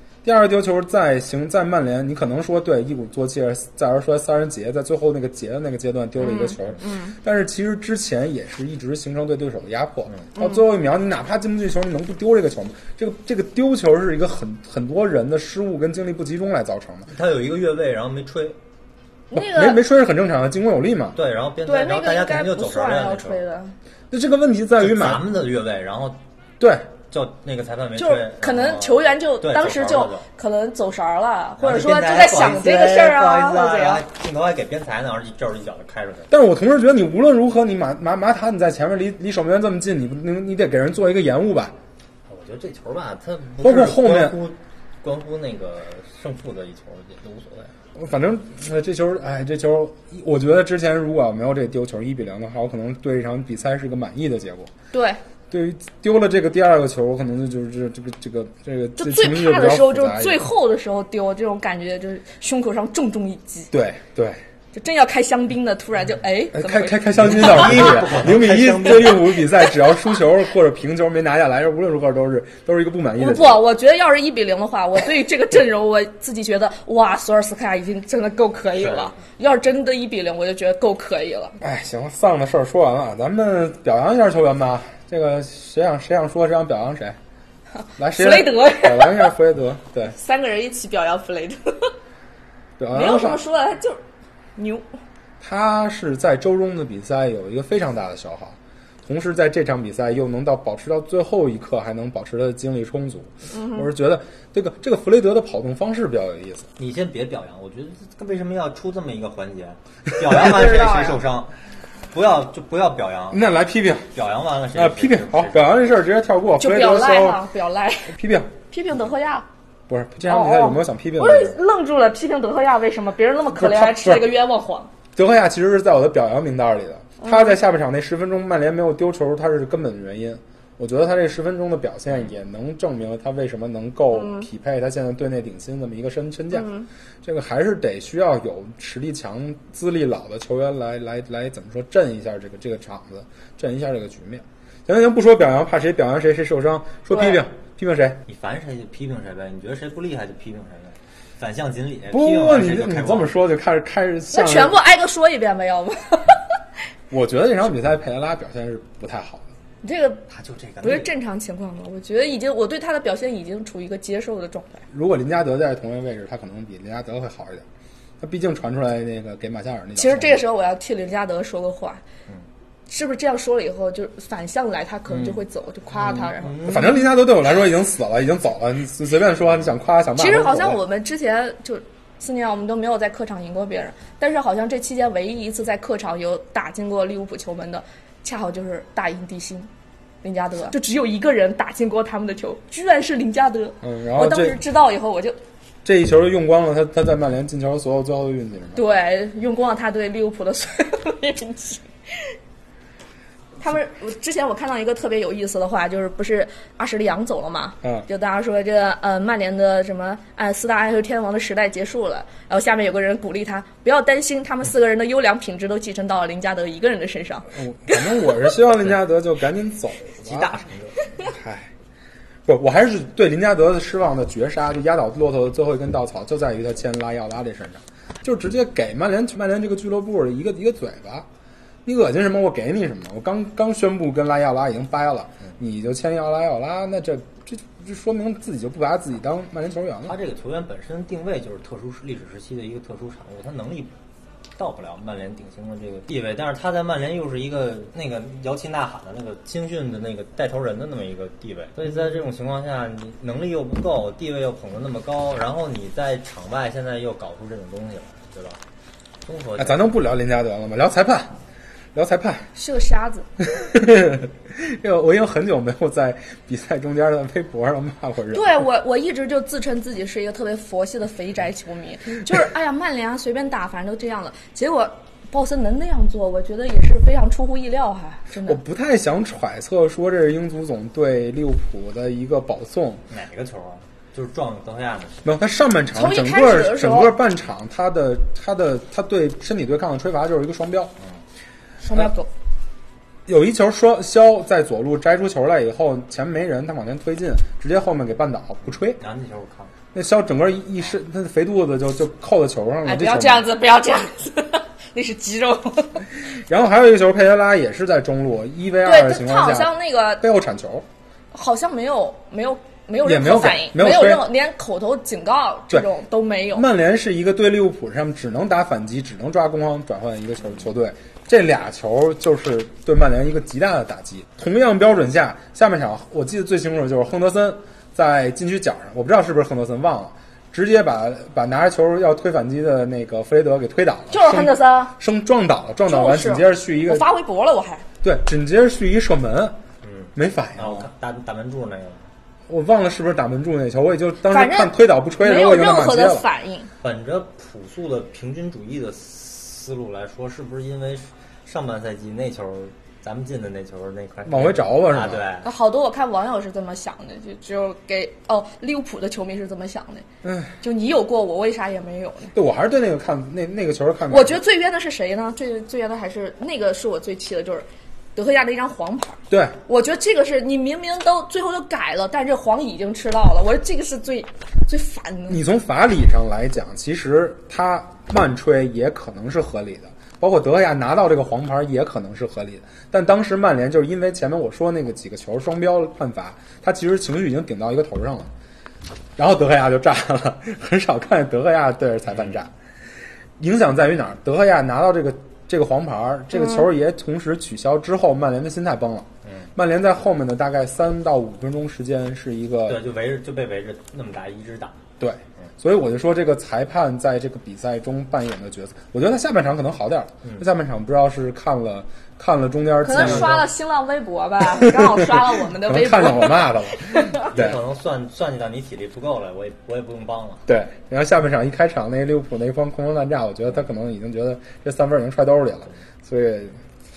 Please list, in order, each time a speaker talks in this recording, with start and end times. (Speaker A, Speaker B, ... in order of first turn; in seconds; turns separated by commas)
Speaker A: 0.2-17.1, Speaker B: 6.2-7.2, Speaker B: 10.3-10.6, Speaker C: 17.1-18.6, Speaker B: 19.3-19.8, Speaker A: 19.3-21.2, Speaker C: 21.1-23.4, Speaker B: 21.6-23.7, Speaker A: 24.1-25.3, Speaker C: 24.8-26.2, Speaker A: 26.6-26.9, Speaker C: 27.1-30.2, Speaker B: 28.0-34.0, Speaker C: 31.6-36.3, Speaker A: 36.3-41.7, Speaker C: 42.3-47.7, Speaker A: 43.6-44.4, Speaker A: 47.9-54.7, Speaker B: 54.9-55.2, Speaker A: 55.5-60.4, Speaker B: 59.0-63.7, Speaker A: 63.7-64.4, Speaker B: 64.7-68.0, Speaker A: 66.5-73.6, Speaker C: 67.1-69.3, Speaker B: 73.2-81.6, Speaker C: 78.8-79.1, Speaker A: 81.6-87.2, Speaker A: 88.0-90.1, Speaker B: 88.1-89.3, Speaker B: 90.1-91.9, Speaker A: 92.8-93.4, Speaker B: 92.9-94.0, Speaker B: 94.5-94.8, Speaker A: 95.4-106.7, Speaker B: 103.5-103.9, Speaker C: 106.8-111.5, Speaker B: 110.3-111.2, Speaker C: 112.1-113.4, Speaker A: 113.3-114.1, Speaker C: 114.1-115.8, Speaker A: 114.7-117.4, Speaker B: 116.6-118.1, Speaker A: 118.1-118.5, Speaker B: 118.7-119.5, Speaker A: 119.9-121.6, Speaker B: 120.2-124.9, Speaker A: 123.5-124.3, Speaker A: 125.2-148.2, Speaker B: 127.2-127.6, Speaker B: 134.1-134.5, Speaker B: 136.5-136.9, Speaker B: 147.1-147.4, Speaker C: 148.3-153.4, Speaker A: 152.1-154.8, Speaker B: 154.3-156.4, Speaker A: 157.1-159.4, Speaker B: 159.8-160.2, Speaker C: 160.3-161.1, Speaker B: 160.8-164.8, Speaker A: 164.9-167.6, Speaker A: 168.2-170.4, Speaker B: 169.9-172.0, Speaker B: 172.9-176.9, Speaker C: 175.1-175.4, Speaker C: 176.0-177.0, Speaker A: 176.6-180.8, Speaker B: 180.2-189.7, Speaker B: 190.2-195.4, Speaker A: 193.8-194.6, Speaker A: 195.8-198.8, Speaker B: 198.7-202.3, Speaker B: 203.6-218.3, Speaker A: 217.5-220.5, Speaker C: 220.2-221.0, Speaker A: 221.3-221.7, Speaker A: 222.5-231.3, Speaker A: 231.8-240.2, Speaker C: 240.0-243.9, Speaker C: 244.6-258.6, Speaker C: 259.2-259.9, Speaker A: 259.6-261.3, Speaker A: 261.9-262.5, Speaker B: 262.5-263.3, Speaker A: 263.4-268.6, Speaker B: 268.3-278.6, Speaker A: 278.4-283.0, Speaker C: 283.1-285.2, Speaker A: 285.2-290.9, Speaker B: 285.9-287.1, Speaker B: 291.8-292.3, Speaker A: 293.3-299.0, Speaker C: 298.9-299.7, Speaker A: 299.9-303.5, Speaker B: 302.8-306.0, Speaker A: 306.2-310.9, Speaker B: 308.8-310.2, Speaker B: 311.3-316.6, Speaker A: 313.0-314.3, Speaker A: 316.5-337.1, Speaker B: 334.1-334.9, Speaker B: 335.9-337.8, Speaker A: 338.0-339.6, Speaker C: 339.8-342.1, Speaker A: 340.1-340.9, Speaker A: 342.5-346.3, Speaker B: 344.3-346.7, Speaker C: 346.8-355.5, Speaker A: 354.2-355.2, Speaker B: 355.4-360.1, Speaker A: 360.2-360.6, Speaker B: 360.6-362.3, Speaker A: 362.3-364.4, Speaker B: 364.1-375.4, Speaker A: 369.3-369.6, Speaker A: 375.3-388.3, Speaker A: 389.2-392.5, Speaker C: 392.1-392.4, Speaker A: 393.4-402.8, Speaker C: 402.6-404.8, Speaker A: 405.0-413.5, Speaker B: 412.8-417.3, Speaker C: 412.9-413.3, Speaker A: 414.5-417.6, Speaker C: 417.2-420.4, Speaker A: 420.5-426.6